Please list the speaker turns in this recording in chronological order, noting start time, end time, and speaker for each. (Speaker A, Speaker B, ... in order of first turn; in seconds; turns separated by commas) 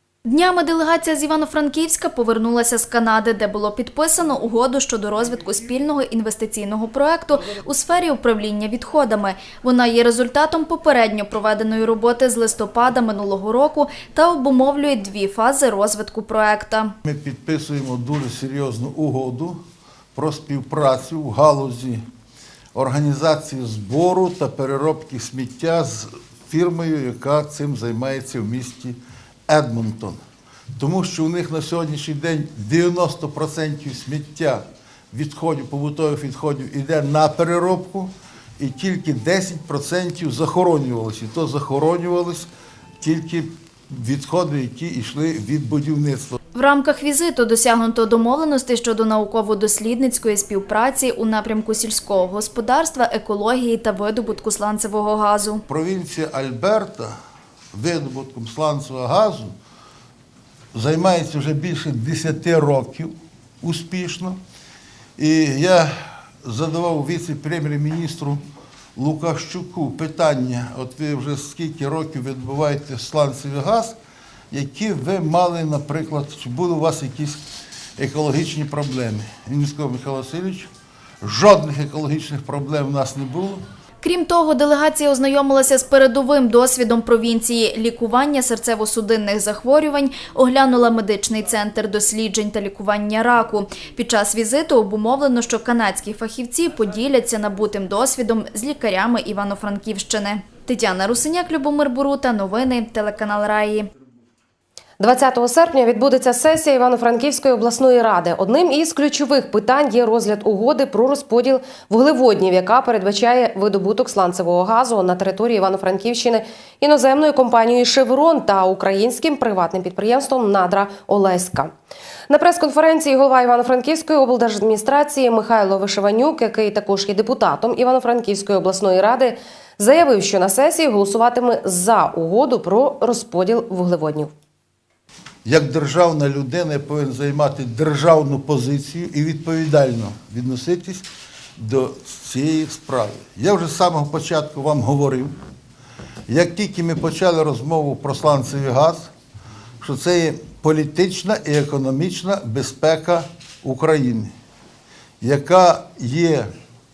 Speaker A: 0.2-16.9, Speaker B: 17.0-19.6, Speaker B: 20.1-22.0, Speaker B: 22.7-30.2, Speaker B: 30.8-42.5, Speaker B: 43.0-46.4, Speaker A: 46.5-55.6, Speaker B: 55.7-57.1, Speaker B: 57.7-59.5, Speaker B: 60.7-64.4, Speaker B: 65.2-65.9, Speaker B: 66.4-68.4, Speaker B: 69.0-74.0, Speaker B: 74.5-77.4, Speaker B: 78.0-80.7, Speaker B: 81.2-83.6, Speaker A: 84.0-103.9, Speaker C: 105.0-121.7, Speaker C: 122.3-134.3, Speaker B: 135.4-141.1, Speaker B: 141.6-145.3, Speaker B: 146.3-149.1, Speaker B: 149.8-154.3, Speaker B: 155.2-156.5